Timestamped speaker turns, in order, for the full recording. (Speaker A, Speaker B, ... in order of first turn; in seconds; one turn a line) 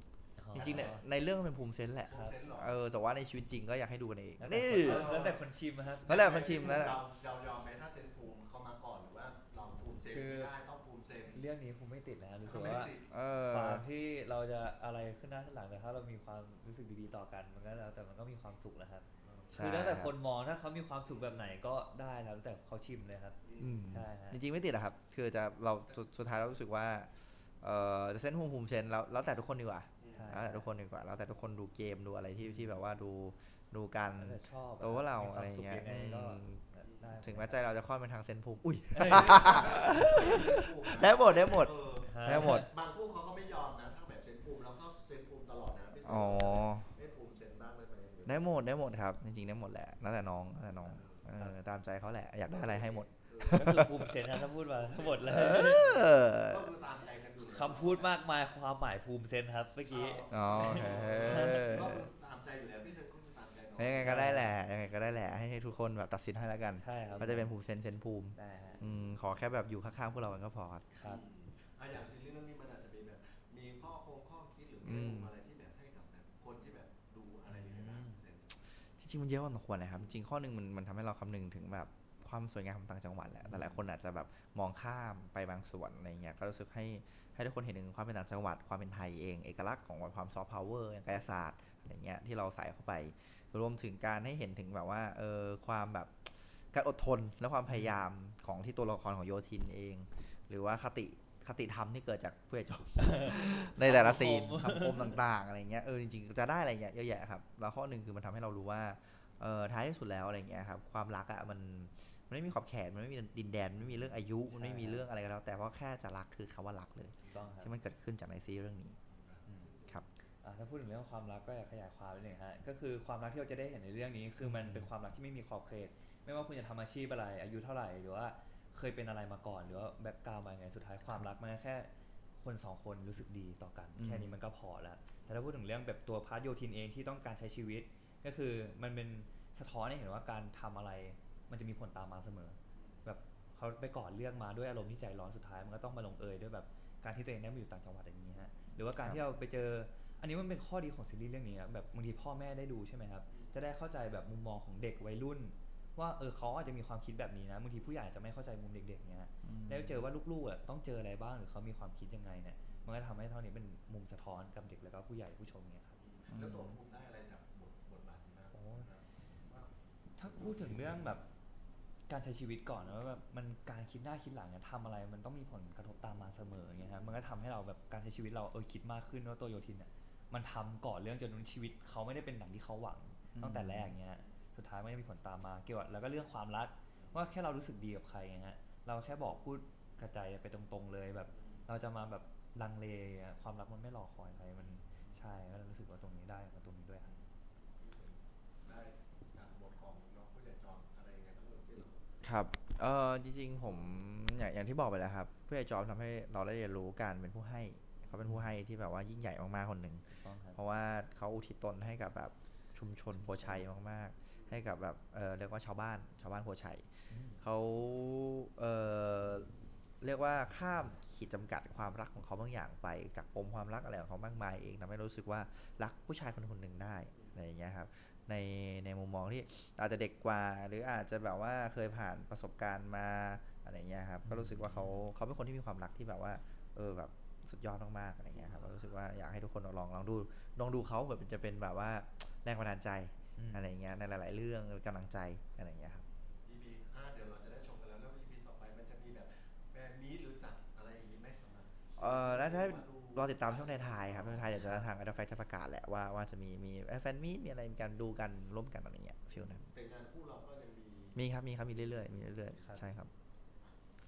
Speaker A: 0.4-1.0
Speaker B: 0.5-1.0
Speaker C: 0.5-5.1
Speaker B: 2.1-2.8
Speaker A: 2.1-2.4
Speaker A: 4.4-6.9
Speaker B: 4.8-5.5
Speaker C: 6.0-7.0
Speaker B: 6.0-11.4
Speaker A: 10.1-10.5
Speaker A: 11.3-12.9
Speaker B: 12.4-13.1
Speaker C: 13.1-13.8
Speaker A: 13.5-23.4
Speaker B: 19.2-19.6
Speaker C: 19.5-20.1
Speaker B: 21.1-21.4
Speaker B: 23.4-23.9
Speaker C: 23.6-36.6
Speaker A: 23.9-24.4
Speaker B: 30.0-30.4
Speaker A: 30.1-30.7
Speaker A: 32.4-32.7
Speaker A: 34.2-37.7
Speaker B: 36.8-37.2
Speaker C: 37.2-42.7
Speaker A: 38.9-39.9
Speaker B: 39.0-48.6
Speaker A: 42.0-42.7
Speaker C: 46.0-46.9
Speaker C: 48.2-54.1
Speaker B: 50.8-51.3
Speaker B: 52.5-58.2
Speaker A: 53.4-56.0
Speaker C: 55.3-56.7
Speaker A: 57.4-61.8
Speaker B: 59.9-64.3
Speaker C: 60.3-62.1
Speaker C: 63.8-70.8
Speaker A: 64.0-64.6
Speaker A: 66.8-67.5
Speaker B: 67.0-67.3
Speaker A: 68.3-68.8
Speaker B: 68.7-69.1
Speaker A: 70.9-71.2
Speaker B: 71.0-78.5
Speaker C: 74.8-75.3
Speaker A: 77.5-78.2
Speaker C: 78.6-119.0
Speaker A: 83.5-83.8
Speaker A: 97.7-98.0
Speaker A: 103.0-105.2
Speaker A: 114.5-115.0
Speaker A: 117.3-117.8
Speaker B: 119.1-120.0
Speaker A: 119.5-119.7
Speaker A: 120.4-166.0
Speaker C: 124.4-124.9
Speaker C: 133.9-134.4
Speaker B: 142.7-143.1
Speaker C: 148.9-149.2
Speaker B: 153.3-153.6
Speaker C: 159.4-160.0
Speaker B: 166.0-169.7
Speaker C: 166.3-166.8
Speaker A: 168.5-168.9
Speaker A: 170.2-171.2
Speaker B: 170.3-170.8
Speaker A: 172.1-197.1
Speaker B: 176.8-177.1
Speaker C: 183.3-183.9
Speaker B: 186.9-187.3
Speaker B: 191.3-191.7
Speaker B: 197.0-202.0
Speaker C: 202.2-216.9
Speaker A: 210.2-210.6
Speaker B: 214.3-214.6
Speaker A: 217.1-217.4
Speaker C: 217.4-219.5
Speaker C: 220.0-246.0
Speaker B: 227.1-227.4
Speaker A: 234.2-235.0
Speaker B: 238.3-239.0
Speaker A: 243.4-243.7
Speaker B: 246.4-254.7
Speaker C: 252.0-259.7
Speaker A: 254.6-254.8
Speaker B: 259.3-261.2
Speaker C: 261.1-263.1
Speaker B: 261.7-263.0
Speaker A: 262.6-262.9